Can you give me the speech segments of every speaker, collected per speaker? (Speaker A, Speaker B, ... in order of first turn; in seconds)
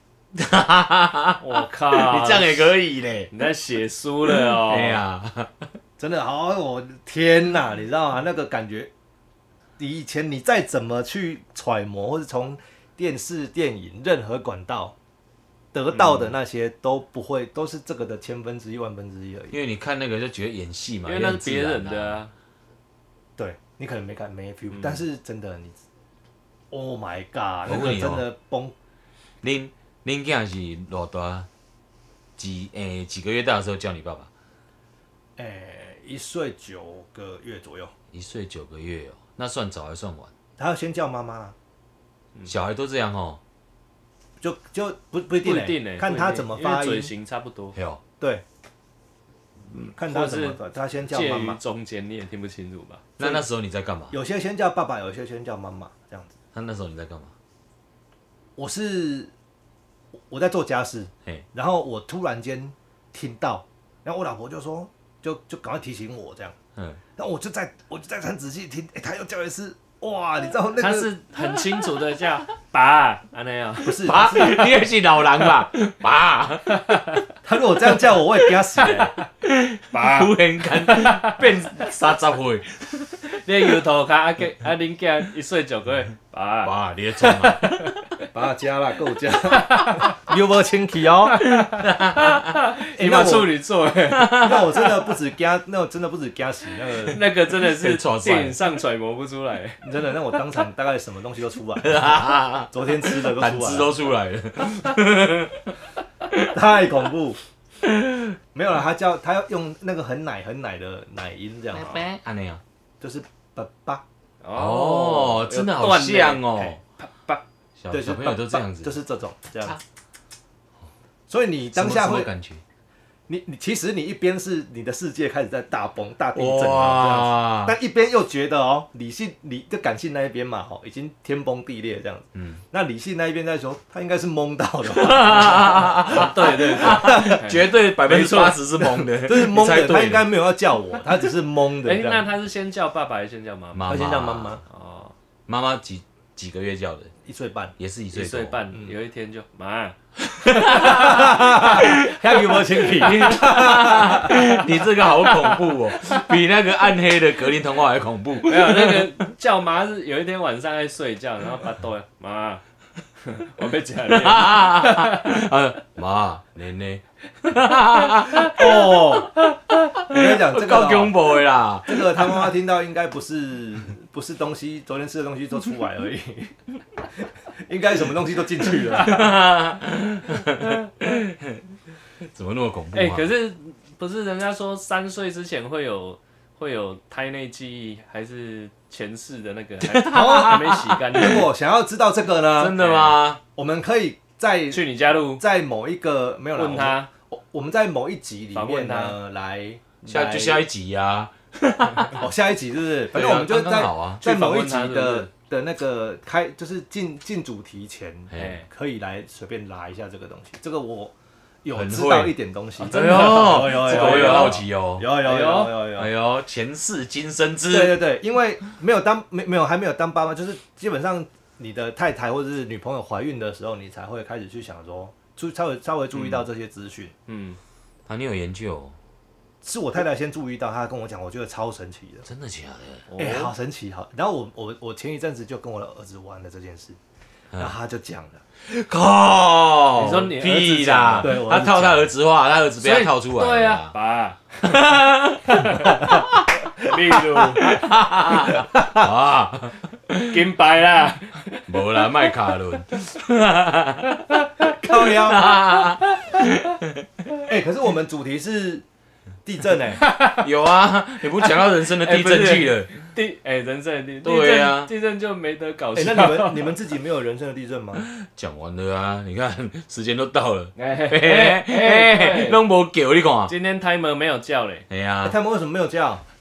Speaker A: 0.3-3.3, 4.3-5.7, 19.5-22.2, 27.6-28.2, 29.4-31.5, 32.4-34.3, 38.1-40.3, 42.5-43.4, 47.7-48.0, 53.2-54.2, 56.5-57.3, 66.8-67.0, 74.0-76.9, 79.4-83.1, 86.6-88.0, 91.6-92.5, 94.2-94.6, 97.6-98.6, 101.8-105.7, 107.8-108.3, 111.7-112.6, 114.5-116.8, 117.8-118.9, 121.7-122.6, 126.3-127.8, 132.3-132.6, 134.9-140.3, 143.7-144.6, 145.5-147.1, 147.8-148.6, 150.4-159.1, 164.1-172.5, 178.9-181.5, 182.2-183.3, 189.8-191.4, 192.6-193.4, 200.1-202.2, 203.1-204.3, 208.3-208.6, 211.7-215.1, 215.9-218.0, 228.1-229.0, 232.3-233.1, 238.6-243.9, 244.6-250.4, 251.7-257.1, 260.4-262.9, 264.2-264.9, 268.1-273.5, 274.9-275.4
Speaker B: 1.4-2.7, 3.3-5.0, 21.1-22.3, 45.4-47.8, 49.8-53.0, 70.8-74.2, 75.4-75.6, 76.7-77.2, 79.9-80.3, 80.8-81.4, 83.3-87.9, 89.7-90.0, 91.3-94.5, 97.1-99.8, 114.4-117.4, 136.0-138.5, 141.8-144.0, 144.6-145.1, 148.1-150.0, 150.6-151.1, 155.2-155.6, 158.4-162.6, 163.2-165.4, 182.9-191.5, 192.7-193.2, 194.7-195.4, 196.5-197.1, 198.5-199.2, 204.2-205.3, 208.3-208.7, 212.8-215.8, 227.3-227.6, 233.1-233.5, 239.9-241.4, 242.8-244.9, 245.5-246.2, 246.7-247.9, 250.3-251.7, 260.0-260.4, 261.4-266.8, 270.8-272.6, 273.5-274.9
Speaker C: 6.0-8.9, 9.8-14.9, 15.7-19.6, 23.4-25.8, 26.7-28.7, 35.4-37.9, 40.6-41.5, 44.4-47.1, 49.8-51.6, 53.2-53.4, 54.1-56.3, 58.5-59.3, 60.3-66.5, 67.2-71.1, 73.8-74.8, 77.4-79.1, 88.3-91.4, 93.0-93.5, 94.3-97.2, 99.8-103.9, 106.5-107.4, 108.5-112.1, 113.0-114.0, 117.9-119.8, 121.3-122.3, 123.3-137.4, 138.1-142.3, 143.9-144.6, 147.2-147.7, 150.6-154.7, 168.4-169.3, 170.1-171.2, 171.8-176.5, 177.2-179.3, 190.1-192.8, 193.5-200.6, 202.1-216.1, 217.7-227.1, 229.6-232.3, 233.2-237.0, 237.5-238.4, 241.2-242.1, 248.8-249.1, 254.8-255.6, 257.4-258.8, 259.4-260.0, 265.9-268.1, 275.2-276.2